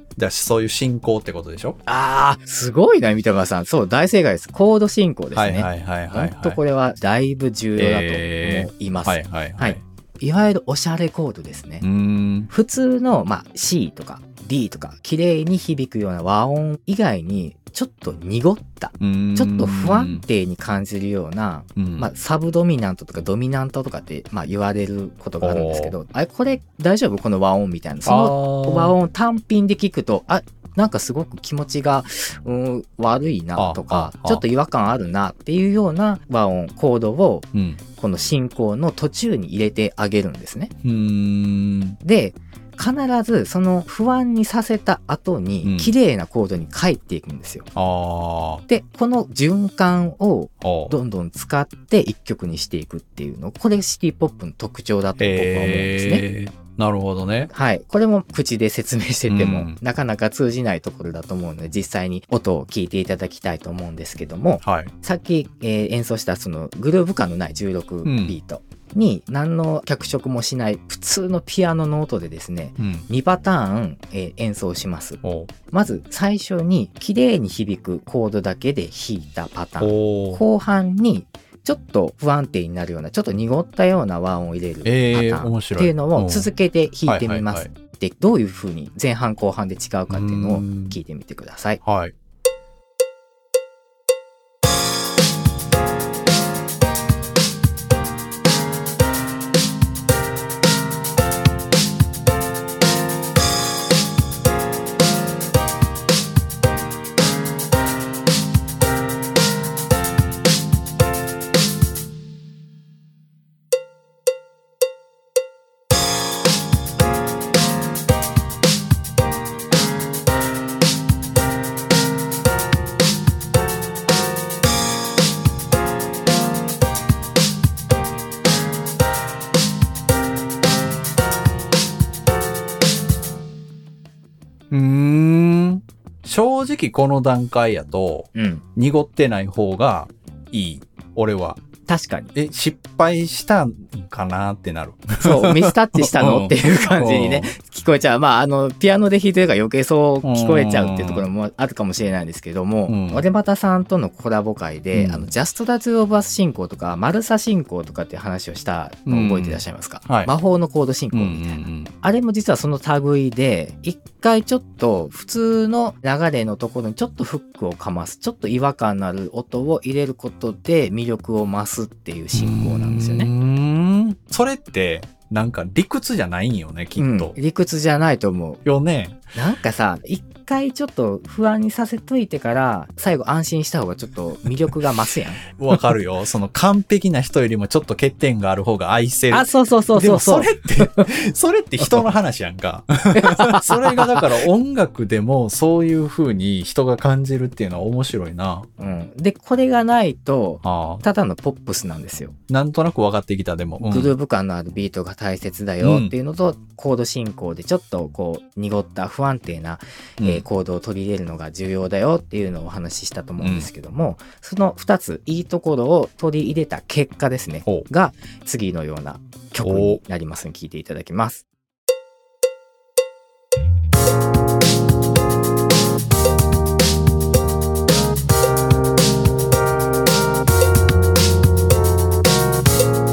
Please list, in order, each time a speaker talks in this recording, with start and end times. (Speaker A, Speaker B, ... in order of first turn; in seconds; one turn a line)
Speaker A: 0.2-1.8
Speaker B: 1.9-11.8
Speaker A: 5.3-6.6
Speaker A: 7.8-9.8
Speaker A: 11.8-12.5
Speaker B: 12.5-40.7
Speaker A: 19.0-20.2
Speaker A: 21.8-22.1
Speaker A: 25.4-25.9
Speaker A: 28.0-28.9
Speaker A: 33.6-34.4
Speaker A: 37.5-37.8
Speaker A: 40.8-42.0
Speaker B: 42.0-47.7
Speaker A: 45.6-45.9
Speaker A: 47.7-48.6
Speaker B: 48.7-56.2
Speaker A: 50.6-50.9
Speaker A: 55.2-57.5
Speaker B: 57.5-75.2
Speaker A: 59.3-59.8
Speaker A: 64.6-64.9
Speaker A: 68.0-68.3
Speaker A: 72.8-73.0
Speaker A: 75.2-75.5
Speaker B: 75.7-91.8
Speaker A: 79.8-80.4
Speaker A: 84.8-86.5
Speaker A: 87.0-87.7
Speaker A: 90.1-91.0
Speaker A: 91.8-92.1
Speaker A: 134.7-141.6
Speaker B: 138.3-138.6
Speaker B: 141.9-142.3
Speaker A: 142.3-147.5
Speaker B: 145.2-173.3
Speaker A: 150.2-151.2
Speaker A: 152.9-153.2
Speaker A: 154.9-155.3
Speaker A: 159.1-160.3
Speaker A: 161.1-161.9
Speaker A: 172.3-177.3
Speaker B: 177.0-178.6
Speaker A: 178.6-179.2
Speaker B: 179.3-185.4
Speaker A: 185.6-198.7
Speaker B: 189.3-191.1
Speaker B: 193.1-194.3
Speaker B: 198.8-202.3
Speaker A: 200.6-201.0
Speaker A: 202.5-204.1
Speaker B: 203.8-221.4
Speaker A: 205.8-206.1
Speaker A: 213.4-213.7
Speaker A: 219.6-220.0